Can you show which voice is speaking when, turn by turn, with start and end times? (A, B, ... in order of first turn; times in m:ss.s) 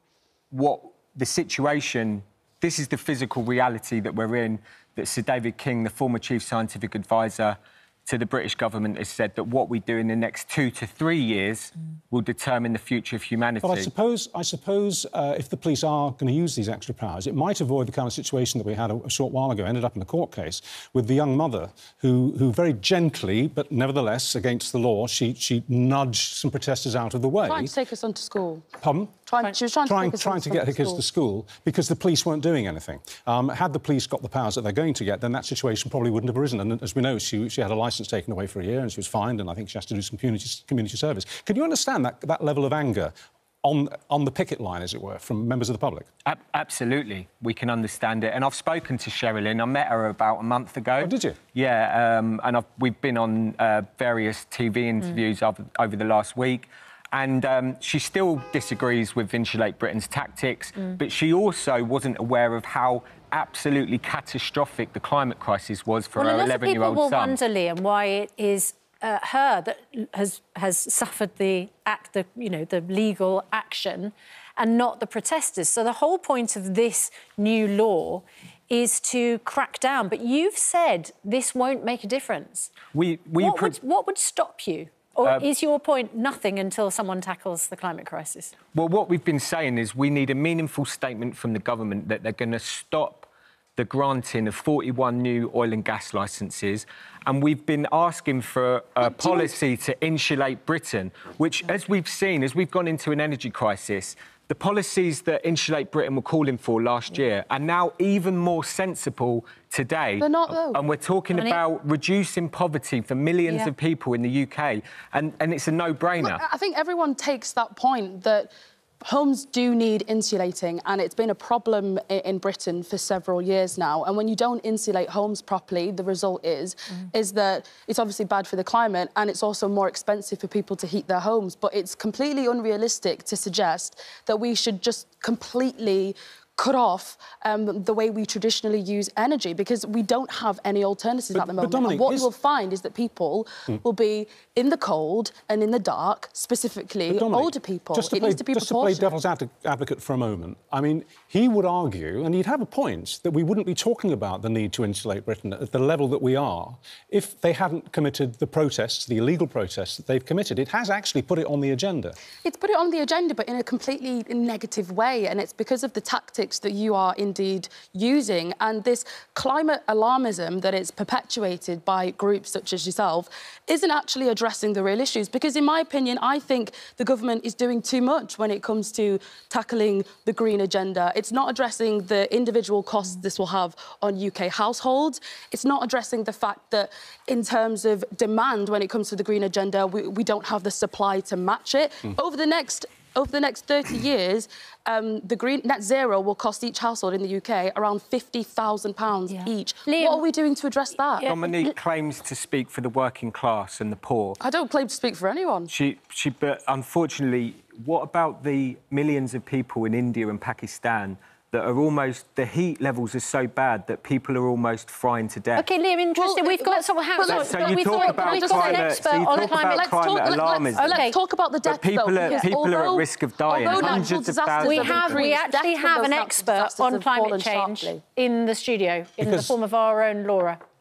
0:00.5-0:13.9 A
0:13.6-0:27.7 B
0:27.5-0:28.7 C
0:28.8-0:29.2 B
0:29.3-0:31.0 C
0:29.8-0:46.1 B
0:46.2-1:07.4 A
0:51.0-0:51.4 B
1:06.2-1:22.8 D
1:22.9-1:23.8 A
1:23.4-1:28.5 D
1:28.7-1:56.4 A
1:50.2-1:50.8 C
1:51.3-1:51.6 D
1:56.2-2:29.1 C
2:21.3-2:22.3 B
2:27.1-2:42.2 B
2:42.4-3:21.3 C
3:19.3-3:20.2 D
3:21.1-3:21.7 D
3:21.2-3:24.4 A
3:24.4-3:25.7 C
3:25.7-3:35.7 A
3:35.6-3:41.2 D
3:36.2-3:48.0 C
3:37.3-3:41.1 A
3:41.6-3:45.2 A
3:42.2-3:42.5 D
3:43.6-3:44.1 D
3:44.6-3:50.6 D
3:49.2-3:49.6 B